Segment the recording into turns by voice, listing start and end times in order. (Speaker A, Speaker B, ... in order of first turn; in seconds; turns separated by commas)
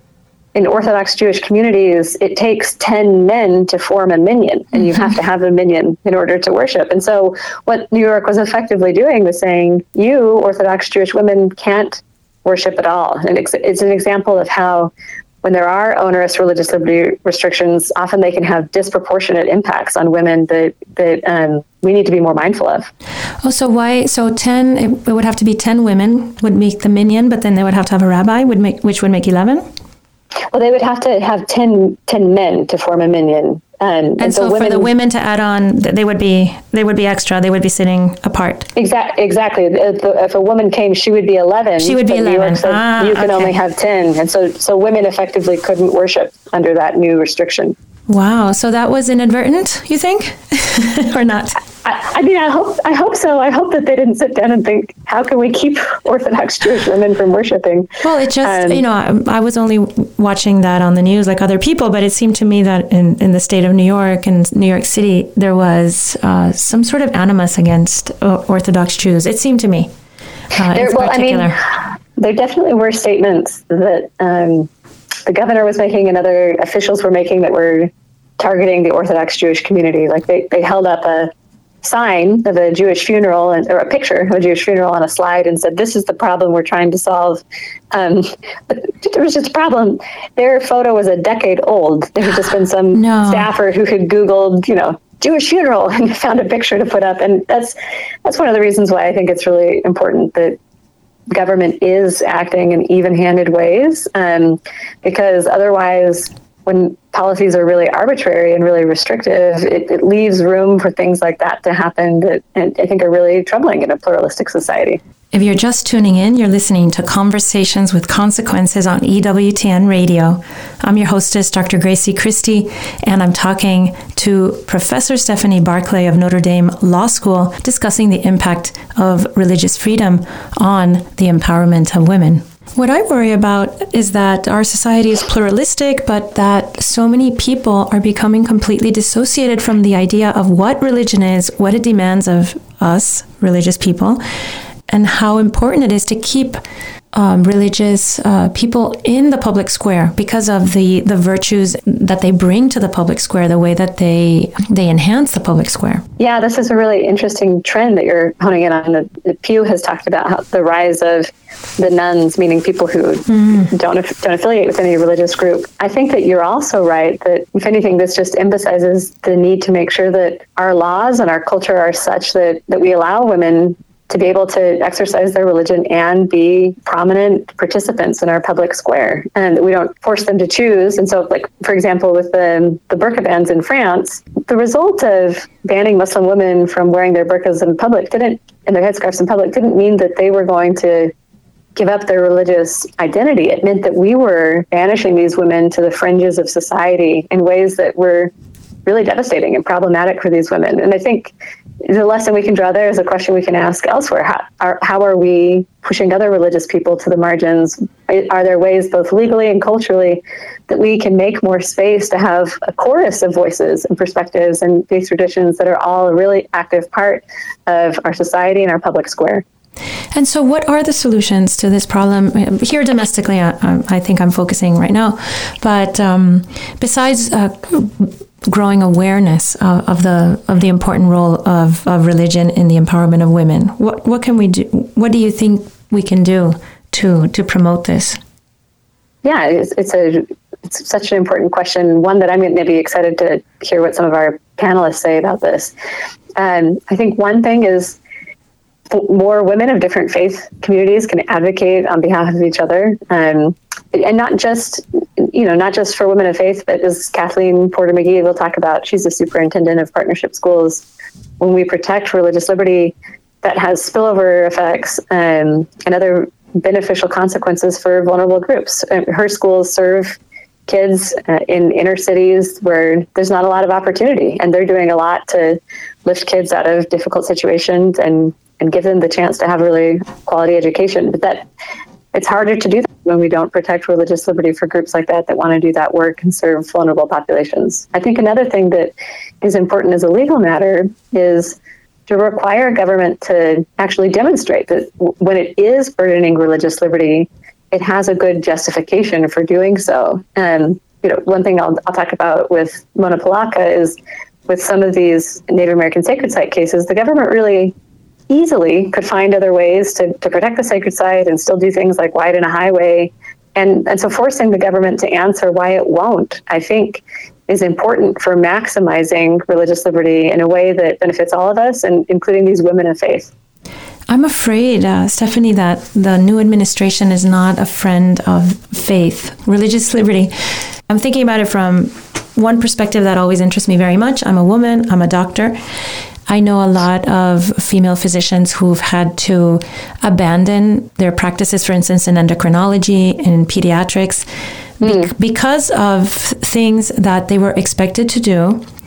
Speaker A: 0.5-14.9, Speaker A: 15.4-22.9, Speaker B: 23.4-29.7, Speaker A: 30.5-34.9, Speaker B: 34.2-38.7, Speaker A: 38.8-47.7, Speaker B: 41.8-43.5, Speaker B: 48.1-51.6, Speaker A: 51.8-57.9, Speaker B: 58.0-69.9, Speaker A: 58.4-58.8, Speaker B: 70.5-71.6, Speaker A: 70.7-71.7, Speaker A: 72.2-74.7, Speaker A: 75.2-81.3, Speaker A: 81.8-100.6, Speaker B: 92.9-93.5, Speaker A: 101.3-115.0, Speaker B: 115.3-144.2, Speaker B: 144.9-146.6, Speaker B: 147.1-156.0, Speaker A: 156.2-191.1, Speaker B: 163.3-163.7, Speaker A: 191.8-198.3, Speaker A: 198.8-201.3, Speaker A: 201.8-219.4, Speaker B: 220.1-238.2, Speaker A: 239.2-245.7, Speaker A: 246.4-248.0, Speaker A: 248.9-260.8, Speaker A: 261.4-270.2, Speaker A: 270.7-281.4, Speaker A: 282.1-304.0, Speaker A: 304.5-307.7, Speaker A: 308.3-323.3, Speaker B: 324.1-330.3, Speaker B: 330.9-335.6, Speaker B: 336.3-344.3, Speaker B: 344.8-348.6, Speaker A: 344.8-345.1